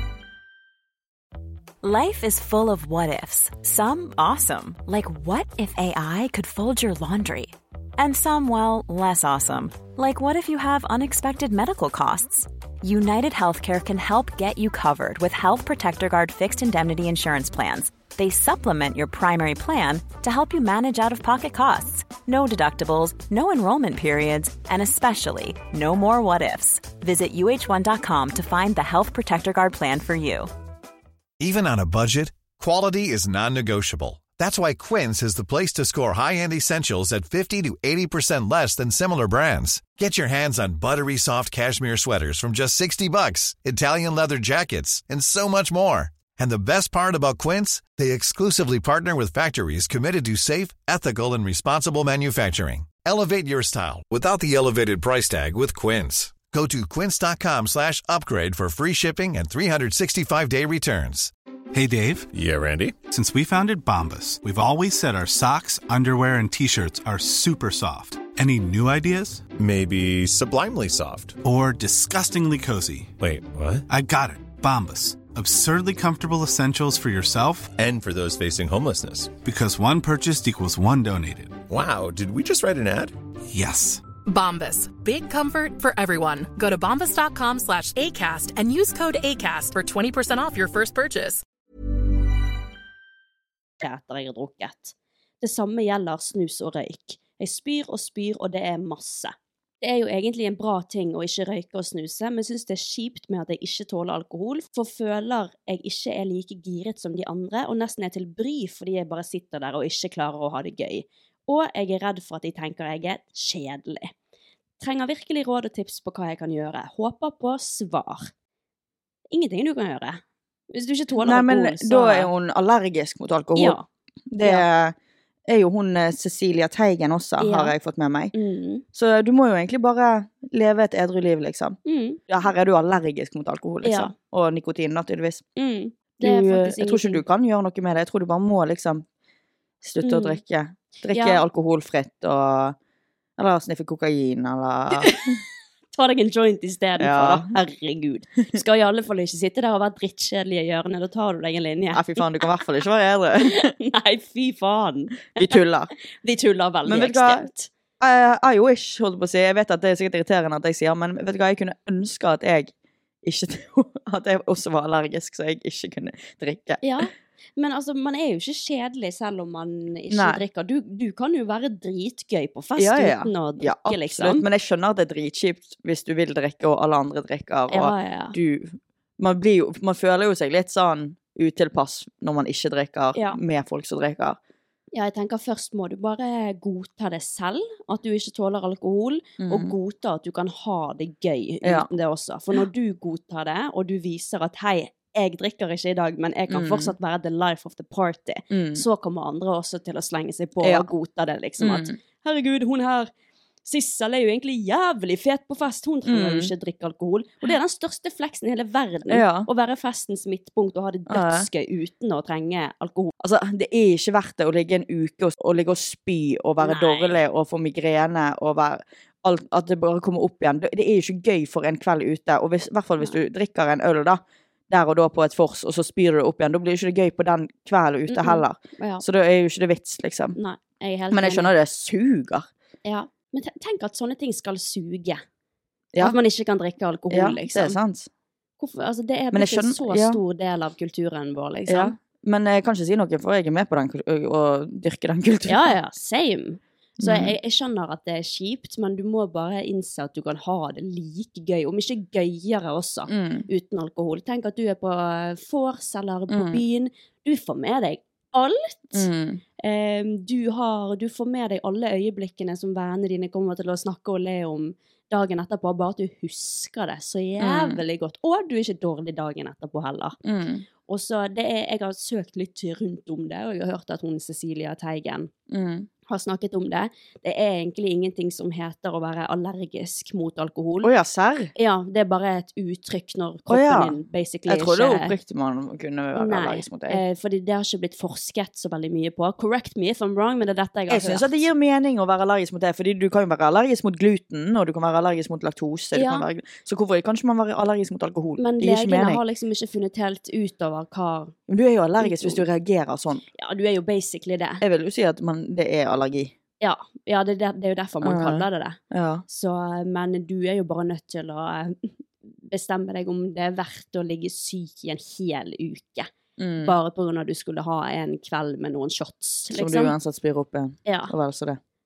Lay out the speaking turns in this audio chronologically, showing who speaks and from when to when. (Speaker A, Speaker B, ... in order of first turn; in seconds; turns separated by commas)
Speaker A: 1.8-30.5, Speaker B: 31.4-61.3, Speaker C: 61.7-62.3, Speaker D: 62.3-62.9, Speaker C: 63.1-69.4, Speaker D: 69.6-71.3, Speaker C: 71.4-73.1, Speaker D: 73.3-73.8, Speaker C: 73.9-77.7, Speaker D: 77.8-79.3, Speaker C: 79.4-81.6, Speaker D: 81.7-83.1, Speaker C: 83.5-84.0, Speaker E: 84.2-91.4, Speaker F: 93.8-114.1, Speaker F: 114.8-118.3, Speaker F: 119.3-120.2, Speaker F: 120.7-122.3, Speaker G: 121.2-123.8, Speaker F: 123.5-123.8, Speaker G: 124.3-124.9, Speaker G: 125.5-128.3, Speaker F: 127.4-127.7, Speaker F: 128.3-128.8, Speaker G: 128.9-131.8, Speaker F: 131.8-132.2, Speaker G: 132.3-135.4, Speaker F: 133.8-134.1, Speaker F: 135.6-137.2, Speaker G: 136.2-139.0, Speaker G: 139.8-142.8, Speaker F: 140.0-140.4, Speaker F: 141.1-141.4, Speaker G: 143.4-145.4, Speaker F: 144.9-145.2, Speaker F: 145.9-152.5, Speaker G: 147.0-147.5, Speaker G: 151.9-153.7, Speaker F: 153.4-155.6, Speaker G: 155.3-155.9, Speaker F: 156.2-157.7, Speaker G: 156.8-157.5, Speaker G: 158.0-162.7, Speaker G: 163.2-167.0, Speaker F: 166.8-174.4, Speaker G: 170.1-170.4, Speaker G: 172.8-184.4, Speaker F: 177.7-178.3, Speaker F: 184.9-203.1, Speaker G: 189.4-189.7, Speaker G: 191.6-191.9, Speaker G: 196.5-196.9, Speaker G: 198.5-198.8, Speaker G: 200.6-200.9, Speaker G: 201.6-201.9, Speaker F: 203.6-213.1, Speaker G: 206.1-206.5, Speaker G: 209.1-209.5, Speaker G: 211.1-211.5, Speaker G: 213.2-230.4, Speaker F: 216.6-217.2, Speaker F: 228.1-229.0, Speaker F: 230.3-231.5, Speaker G: 231.1-232.5, Speaker F: 232.8-235.2, Speaker F: 236.0-237.8, Speaker G: 237.1-238.1, Speaker F: 238.6-241.9, Speaker G: 239.3-240.2, Speaker G: 241.7-245.7, Speaker F: 245.5-259.1, Speaker G: 247.0-247.3, Speaker G: 253.1-253.5, Speaker G: 256.3-256.6, Speaker G: 258.9-259.4, Speaker F: 259.6-270.2, Speaker G: 267.4-267.8, Speaker G: 270.2-270.6, Speaker F: 270.9-275.3, Speaker G: 275.5-275.9, Speaker F: 276.1-280.9, Speaker G: 280.8-281.5, Speaker F: 281.6-285.1, Speaker G: 283.5-287.0, Speaker F: 286.1-291.4, Speaker G: 290.9-299.2, Speaker F: 295.9-296.3, Speaker F: 298.4-301.3, Speaker G: 301.5-303.2, Speaker F: 302.0-302.4, Speaker F: 303.3-304.6, Speaker G: 304.6-306.3, Speaker F: 306.6-316.1, Speaker G: 308.0-309.2, Speaker G: 316.4-316.7, Speaker F: 316.6-319.9, Speaker G: 319.5-321.6, Speaker F: 320.8-321.1